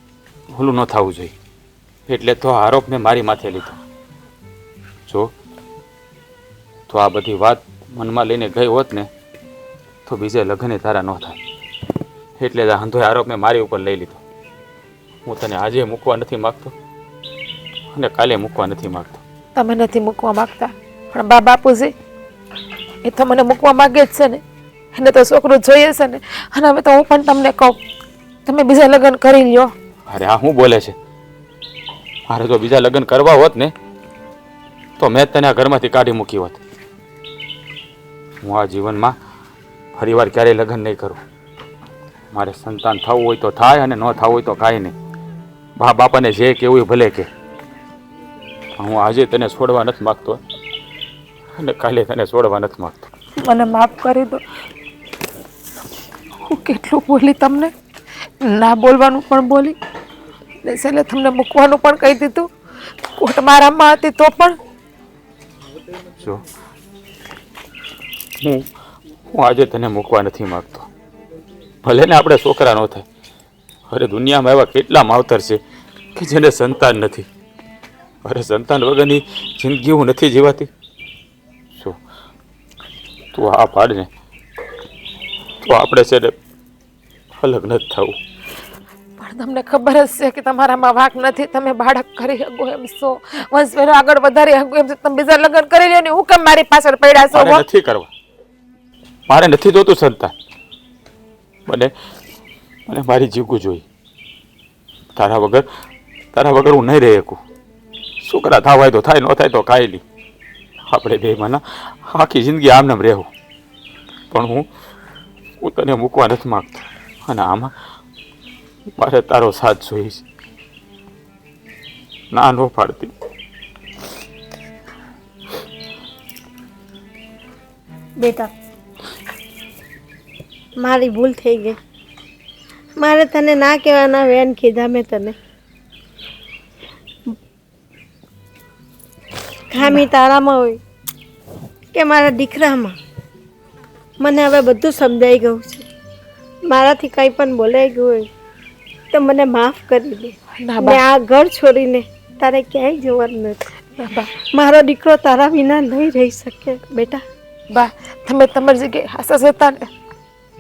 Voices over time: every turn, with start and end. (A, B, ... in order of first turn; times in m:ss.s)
0:00.5-0:01.3 A
0:02.1-0:03.8 A
0:05.1-0:05.3 A
0:06.9-0:09.1 A
0:10.1-0:11.4 A
0:12.4-0:14.2 A
0:15.2-0:16.7 A
0:17.9-0:19.2 A
0:19.6-0:21.9 B
0:23.0-0:24.4 B
0:24.9-0:27.8 B
0:28.5-0:29.7 B
0:30.1-0:31.0 A
0:32.3-0:33.7 A
0:35.0-0:36.6 A
0:38.4-0:39.2 A
0:40.0-0:41.2 A
0:42.3-0:45.0 A
0:45.8-0:47.3 A
0:48.8-0:50.4 A
0:51.6-0:53.1 A
0:53.4-0:54.4 B
0:56.4-0:57.7 B
0:58.4-0:59.8 B
1:00.6-1:02.5 B
1:03.2-1:04.6 B
1:06.2-1:06.5 A
1:08.4-1:08.7 A
1:09.3-1:10.9 A
1:11.8-1:13.1 A
1:13.9-1:15.6 A
1:16.2-1:17.3 A
1:18.2-1:20.7 A
1:21.7-1:22.0 A
1:23.3-1:24.1 A
1:25.6-1:26.4 A
1:27.3-1:28.2 A
1:29.2-1:37.6 B
1:37.3-1:38.1 A
1:39.3-1:40.3 A
1:41.7-1:41.9 A
1:42.9-1:43.9 A
1:45.2-1:45.7 A
1:46.3-1:47.4 A
1:48.2-1:50.0 A
1:50.9-1:53.3 A
1:54.3-1:54.7 A
1:55.6-1:57.7 A
1:59.0-2:00.2 A
2:02.3-2:03.1 A
2:08.2-2:08.5 C
2:10.8-2:11.8 C
2:13.0-2:15.4 C
2:19.7-2:20.8 C
2:21.9-2:23.0 C
2:24.2-2:25.9 C
2:26.7-2:28.3 C
2:29.1-2:33.6 C
2:30.6-2:31.0 B
2:34.0-2:34.3 B
2:34.5-2:37.2 C
2:37.7-2:39.9 B